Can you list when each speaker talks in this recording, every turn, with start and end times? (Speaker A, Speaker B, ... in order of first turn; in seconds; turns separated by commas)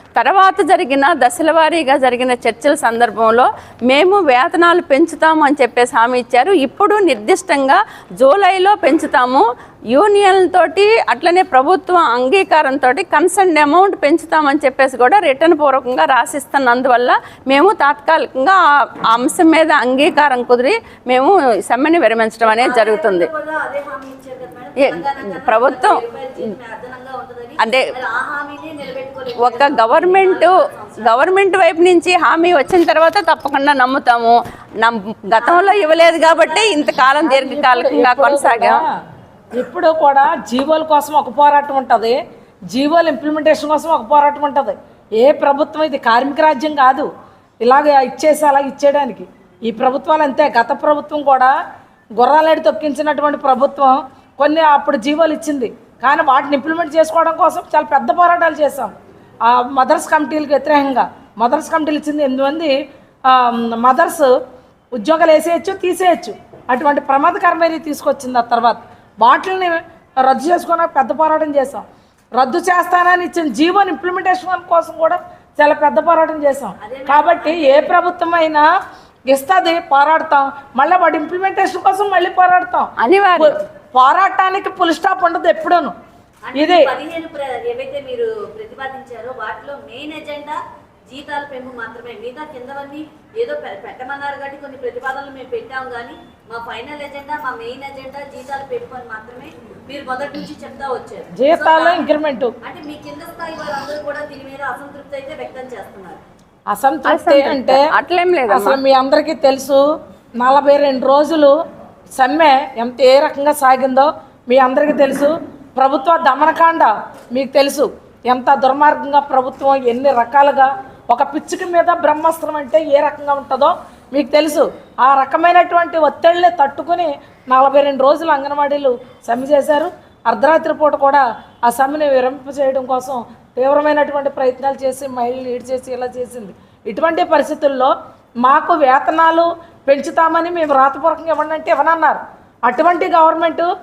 Speaker A: 0.1-23.3, Speaker B: 22.4-31.3, Speaker A: 24.8-26.0, Speaker A: 29.4-30.5, Speaker A: 31.1-38.8, Speaker B: 35.4-37.1, Speaker C: 37.2-38.9, Speaker C: 39.5-42.1, Speaker C: 42.7-47.1, Speaker C: 47.6-51.5, Speaker C: 52.1-58.9, Speaker C: 59.5-62.7, Speaker C: 63.3-64.3, Speaker C: 64.9-78.6, Speaker B: 76.8-77.9, Speaker C: 79.3-85.9, Speaker A: 83.0-83.6, Speaker B: 86.5-106.2, Speaker C: 86.5-86.9, Speaker C: 101.3-102.5, Speaker C: 106.7-107.8, Speaker A: 107.0-108.8, Speaker C: 108.5-109.8, Speaker C: 110.4-111.5, Speaker C: 112.1-143.7